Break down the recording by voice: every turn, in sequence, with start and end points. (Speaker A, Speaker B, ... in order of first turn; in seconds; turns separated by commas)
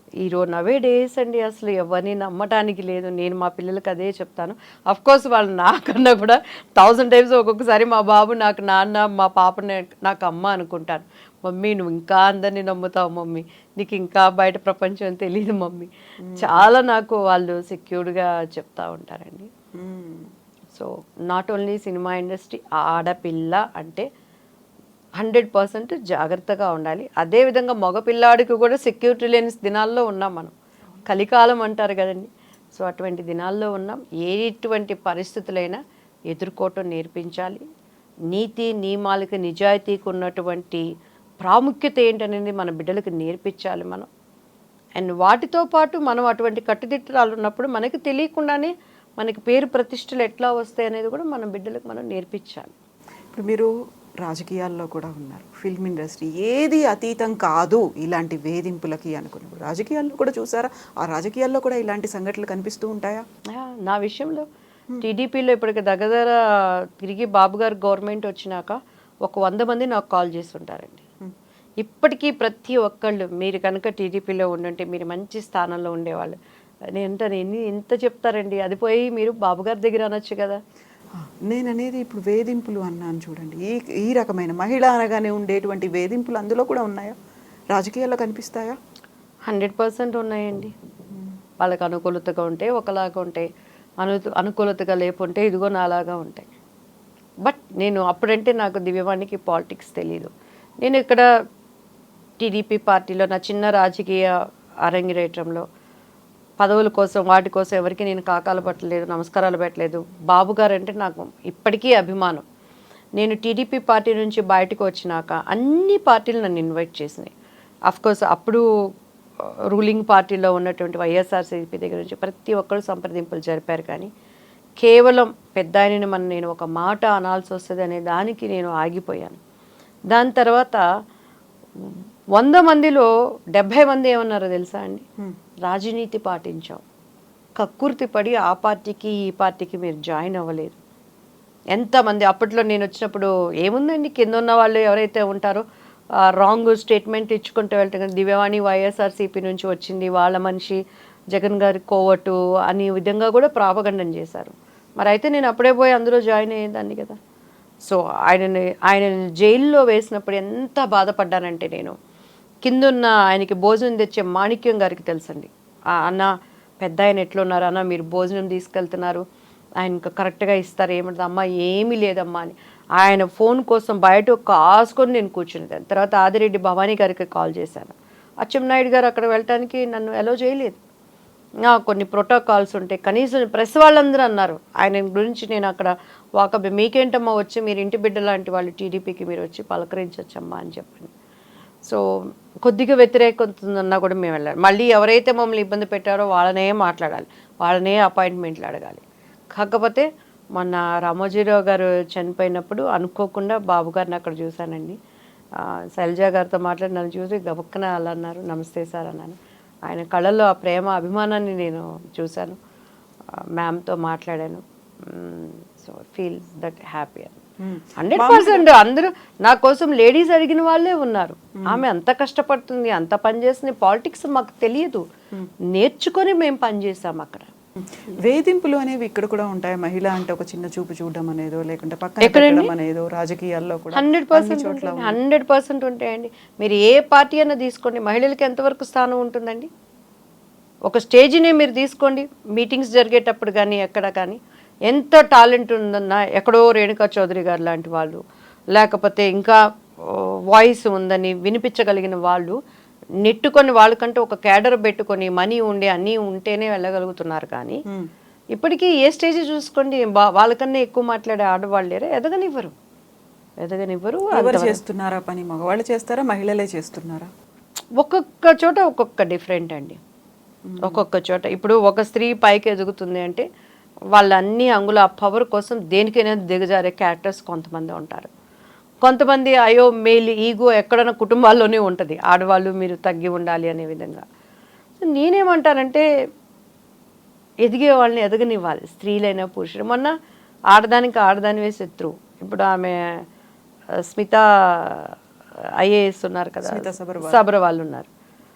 Speaker A: 0.2-19.5, Speaker B: 16.2-16.6, Speaker B: 19.7-20.3, Speaker A: 20.7-24.1, Speaker A: 25.2-30.5, Speaker A: 31.1-37.6, Speaker A: 38.3-40.9, Speaker A: 41.4-44.1, Speaker A: 45.0-52.7, Speaker B: 53.3-63.2, Speaker A: 63.5-64.5, Speaker A: 65.0-71.0, Speaker A: 71.8-76.4, Speaker A: 76.9-80.6, Speaker B: 81.2-87.2, Speaker B: 87.7-88.8, Speaker A: 89.5-90.7, Speaker A: 91.6-93.5, Speaker A: 94.0-96.5, Speaker A: 97.4-100.3, Speaker A: 100.8-101.3, Speaker A: 102.4-104.3, Speaker A: 104.8-105.7, Speaker A: 106.6-112.4, Speaker A: 113.2-117.3, Speaker A: 117.9-118.6, Speaker A: 119.7-124.1, Speaker A: 124.8-129.4, Speaker A: 130.1-130.8, Speaker A: 131.8-135.1, Speaker A: 135.6-136.8, Speaker A: 137.6-140.8, Speaker A: 141.7-145.6, Speaker A: 146.2-150.8, Speaker A: 151.3-157.2, Speaker A: 157.8-161.9, Speaker A: 162.6-169.2, Speaker A: 169.8-180.8, Speaker A: 181.7-191.1, Speaker A: 192.6-199.0, Speaker A: 199.6-205.0, Speaker A: 205.6-212.6, Speaker A: 213.3-217.4, Speaker B: 217.6-218.7, Speaker A: 218.0-225.1, Speaker B: 221.6-221.8, Speaker A: 225.7-227.5, Speaker B: 227.9-235.2, Speaker A: 232.2-232.7, Speaker A: 233.9-239.7, Speaker A: 240.9-248.2, Speaker A: 248.7-252.6, Speaker A: 253.2-257.8, Speaker A: 258.6-262.7, Speaker A: 263.6-264.8, Speaker B: 264.3-267.3, Speaker A: 268.0-270.0, Speaker B: 270.7-271.0, Speaker A: 270.8-273.4, Speaker A: 274.1-278.3, Speaker A: 279.0-284.2, Speaker A: 285.0-286.1, Speaker A: 287.6-290.1, Speaker A: 290.7-293.2, Speaker A: 294.0-295.2, Speaker A: 295.8-298.1, Speaker B: 296.6-297.4